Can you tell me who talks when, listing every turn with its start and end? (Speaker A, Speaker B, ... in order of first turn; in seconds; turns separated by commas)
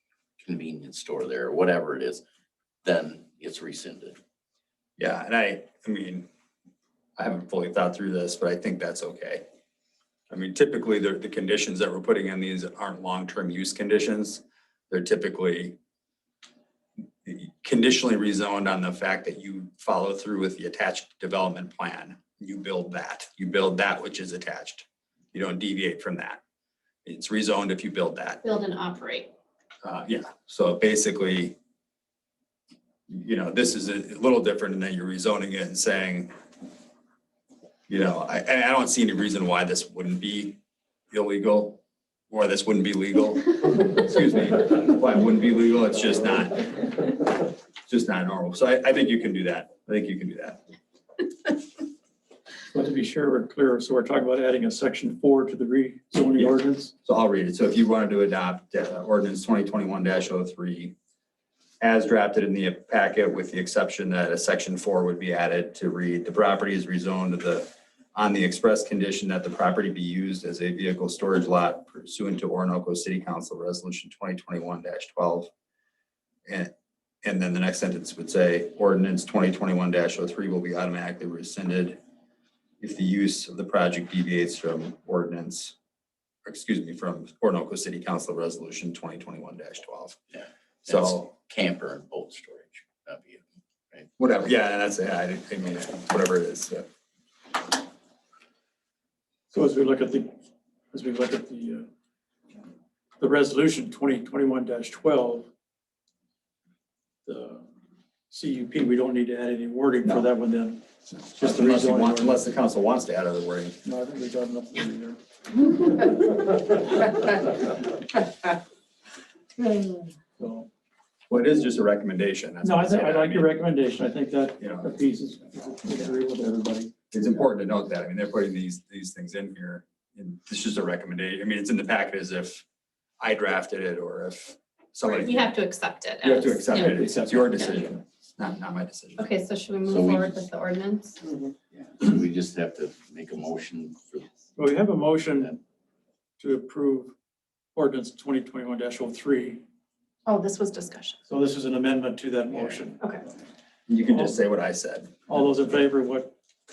Speaker A: 0.4-2.2, Speaker A: 2.8-4.2, Speaker B: 5.0-6.3, Speaker B: 7.2-9.4, Speaker B: 10.3-15.8, Speaker B: 17.2-26.4, Speaker B: 27.1-28.4, Speaker C: 28.4-29.3, Speaker B: 29.8-31.6, Speaker B: 33.1-36.3, Speaker B: 37.9-40.6, Speaker B: 41.1-50.6, Speaker D: 52.7-56.9, Speaker B: 57.0-61.0, Speaker B: 61.8-75.5, Speaker B: 76.5-76.7, Speaker B: 77.2-82.0, Speaker B: 82.8-85.8, Speaker B: 86.5-90.2, Speaker A: 90.3-94.1, Speaker B: 90.9-91.2, Speaker B: 94.2-96.9, Speaker D: 99.5-100.3, Speaker D: 100.9-101.9, Speaker D: 103.2-105.5, Speaker D: 107.3-107.7, Speaker D: 108.3-110.8, Speaker B: 111.3-113.8, Speaker D: 111.4-112.4, Speaker D: 113.8-115.2, Speaker D: 115.9-116.1, Speaker D: 120.4-120.7, Speaker B: 121.3-123.5, Speaker D: 122.6-126.9, Speaker B: 124.6-124.9, Speaker B: 127.1-132.6, Speaker B: 133.2-135.6, Speaker C: 135.0-136.9, Speaker B: 136.2-139.3, Speaker D: 136.7-137.4, Speaker C: 137.5-137.8, Speaker C: 139.2-141.2, Speaker A: 139.9-140.4, Speaker A: 141.7-144.3, Speaker D: 144.6-145.6, Speaker D: 146.4-147.1, Speaker D: 147.8-149.6, Speaker C: 150.3-151.2, Speaker D: 151.3-153.1, Speaker B: 153.9-155.1, Speaker D: 154.1-154.4, Speaker D: 155.3-156.3